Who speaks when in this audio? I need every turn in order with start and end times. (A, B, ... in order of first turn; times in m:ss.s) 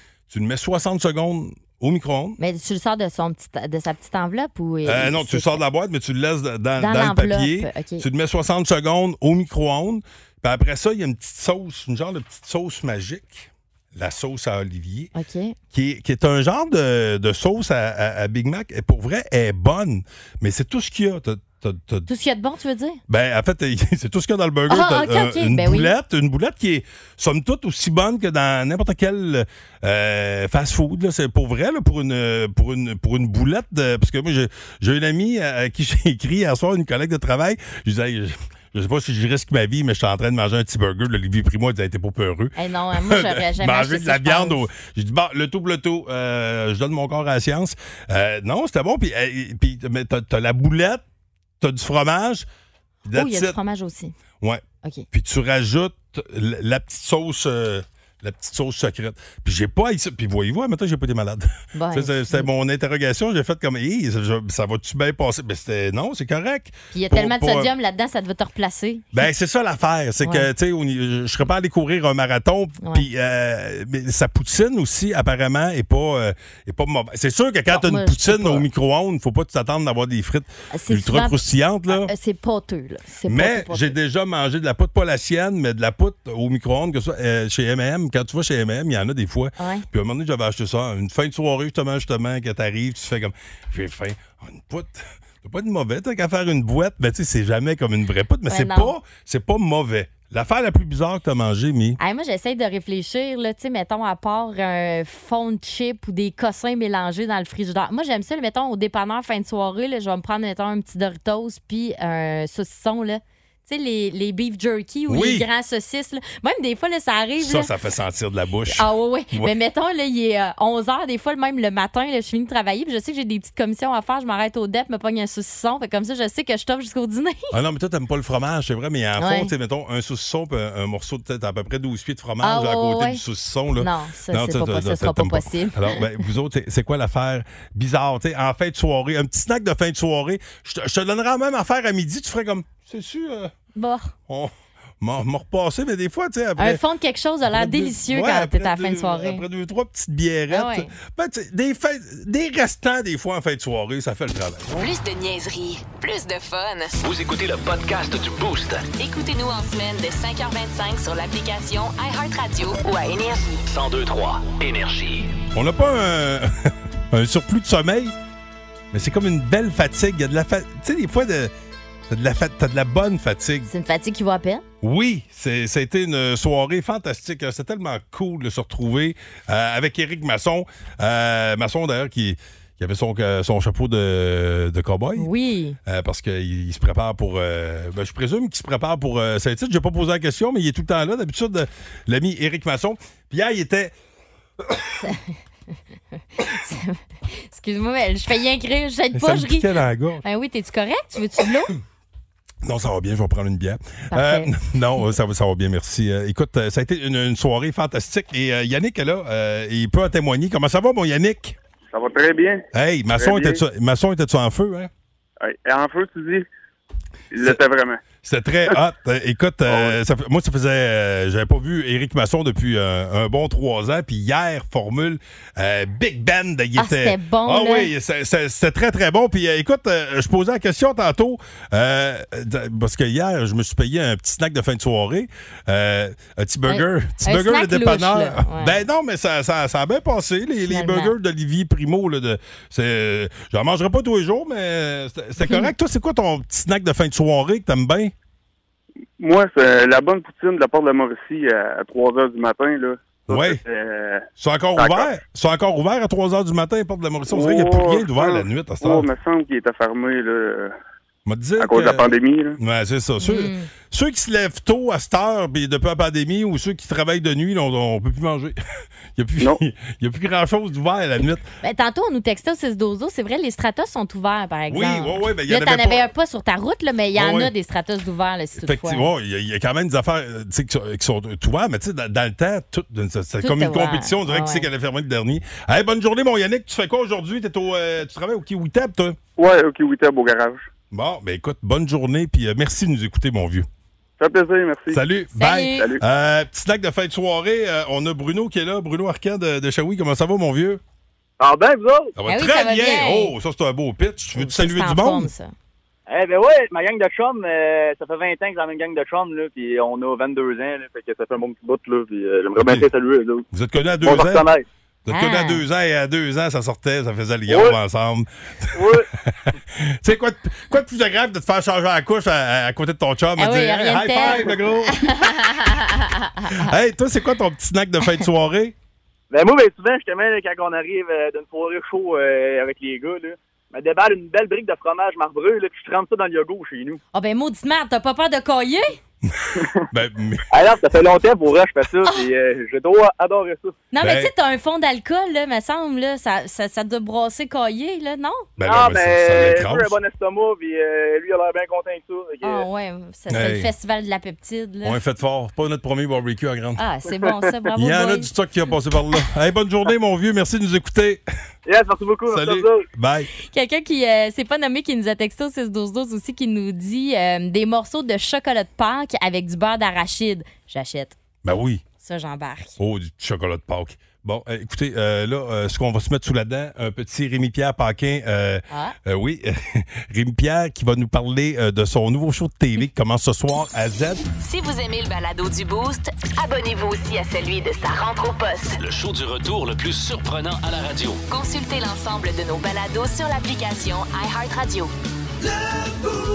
0:00.3-0:02.4 A
0:02.4-0:05.6 B
0:04.8-0:15.1 A
0:06.8-0:08.0 B
0:15.1-0:15.6 B
0:15.7-0:22.1 A
0:22.1-0:23.0 B
0:23.1-0:51.0 A
0:24.7-0:25.9 B
0:42.6-0:44.7 B
0:51.6-0:52.5 A
0:53.0-0:53.6 A
0:53.1-0:54.1 B
0:54.4-1:07.7 A
1:01.7-1:02.5 B
1:06.9-1:09.3 B
1:09.1-1:22.1 A
1:17.7-1:18.6 B
1:20.7-1:21.4 B
1:21.9-1:23.9 B
1:23.2-1:42.0 A
1:29.6-1:29.8 B
1:38.5-1:38.9 B
1:42.0-1:57.7 B
1:55.1-1:55.5 A
1:57.4-1:59.5 A
1:58.7-2:07.5 B
2:07.5-2:23.5 A
2:09.2-2:09.5 B
2:12.4-2:13.2 B
2:13.8-2:16.0 B
2:23.7-2:24.1 B
2:24.3-2:26.8 A
2:26.6-2:29.4 B
2:27.5-2:34.9 A
2:30.5-2:30.9 B
2:34.7-2:36.9 C
2:37.0-2:38.9 D
2:39.0-2:43.6 C
2:43.7-2:45.3 D
2:45.5-2:48.1 A
2:48.9-2:51.5 A
2:52.1-2:53.7 A
2:53.7-2:54.6 B
2:54.8-3:05.3 A
3:05.2-3:05.8 B
3:05.8-3:13.9 A
3:15.0-3:15.3 B
3:16.4-3:19.7 B
3:19.1-3:20.2 A
3:20.2-3:21.7 B
3:22.6-3:31.6 A
3:24.1-3:24.5 B
3:31.9-3:32.6 E
3:32.7-3:34.9 A
3:33.2-3:33.6 E
3:35.4-3:36.5 E
3:37.3-3:38.0 E
3:38.2-4:08.1 A
3:39.6-3:40.0 E
3:46.8-3:47.9 B
3:56.7-3:58.8 B
4:00.6-4:01.1 B
4:05.4-4:05.7 B
4:09.2-4:15.1 E
4:13.3-4:13.6 A
4:14.4-4:19.1 A
4:17.3-4:20.7 E
4:21.2-4:28.6 A
4:21.6-4:22.6 E
4:23.2-4:23.7 B
4:29.2-4:31.4 A
4:31.6-4:39.1 B
4:34.7-4:36.1 A
4:37.1-4:37.5 A
4:38.6-4:49.2 A
4:43.4-4:44.7 B
4:49.4-4:50.7 E
4:50.9-4:53.7 A
4:54.2-4:55.0 E
4:54.9-5:00.8 A
4:55.3-4:55.9 B
5:01.4-5:02.2 F
5:02.2-5:05.3 A
5:02.3-5:03.3 B
5:04.4-5:05.5 B
5:06.1-5:13.4 F
5:12.6-5:12.9 A
5:13.5-5:14.5 A
5:14.0-5:14.6 F
5:15.0-5:25.0 A
5:15.1-5:15.6 B
5:17.5-5:17.8 F
5:18.7-5:19.1 F
5:23.4-5:26.7 B
5:26.6-5:28.7 A
5:29.3-5:37.0 F
5:37.1-5:39.0 B
5:39.2-5:40.4 A
5:40.5-5:43.8 F
5:43.9-5:48.5 B
5:44.0-5:44.3 A
5:48.6-5:50.0 A
5:48.6-5:52.7 F
5:52.4-5:55.0 B
5:53.3-5:53.7 A
5:54.8-5:56.8 A
5:56.8-5:58.3 B
5:57.7-6:01.2 A
6:01.6-6:02.9 F
6:02.3-6:03.3 A
6:03.4-6:11.2 B
6:11.4-6:11.8 A
6:12.0-6:12.8 B
6:12.8-6:24.2 A
6:18.7-6:18.9 B
6:24.4-6:28.8 C
6:28.8-6:31.2 D
6:31.3-6:34.9 C